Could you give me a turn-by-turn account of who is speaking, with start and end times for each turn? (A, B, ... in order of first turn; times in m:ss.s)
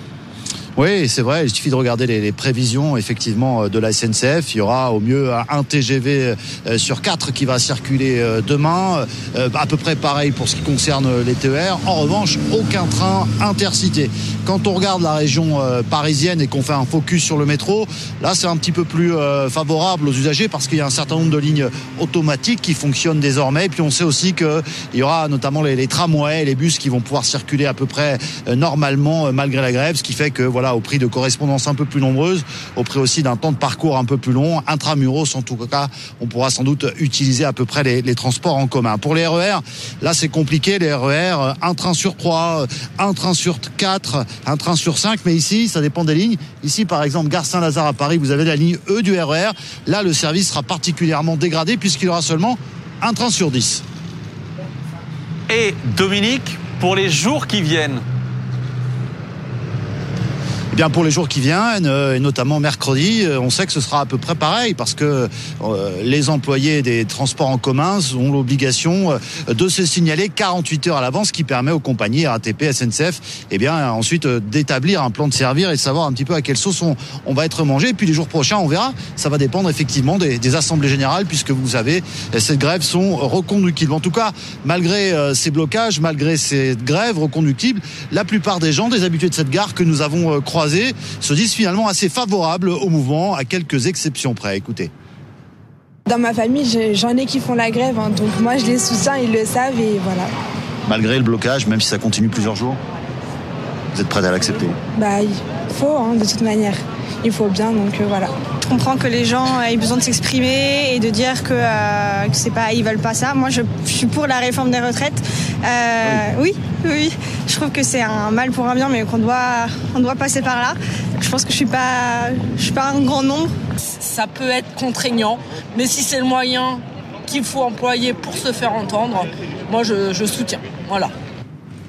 0:00.8-0:53.8 A
0:55.5-0:58.0 B
1:00.7-1:34.9 A
1:36.1-1:40.3 C
1:40.9-1:42.8 A
1:43.9-1:44.8 A
1:45.0-1:48.3 C
1:48.6-2:03.5 D
2:04.0-2:11.1 E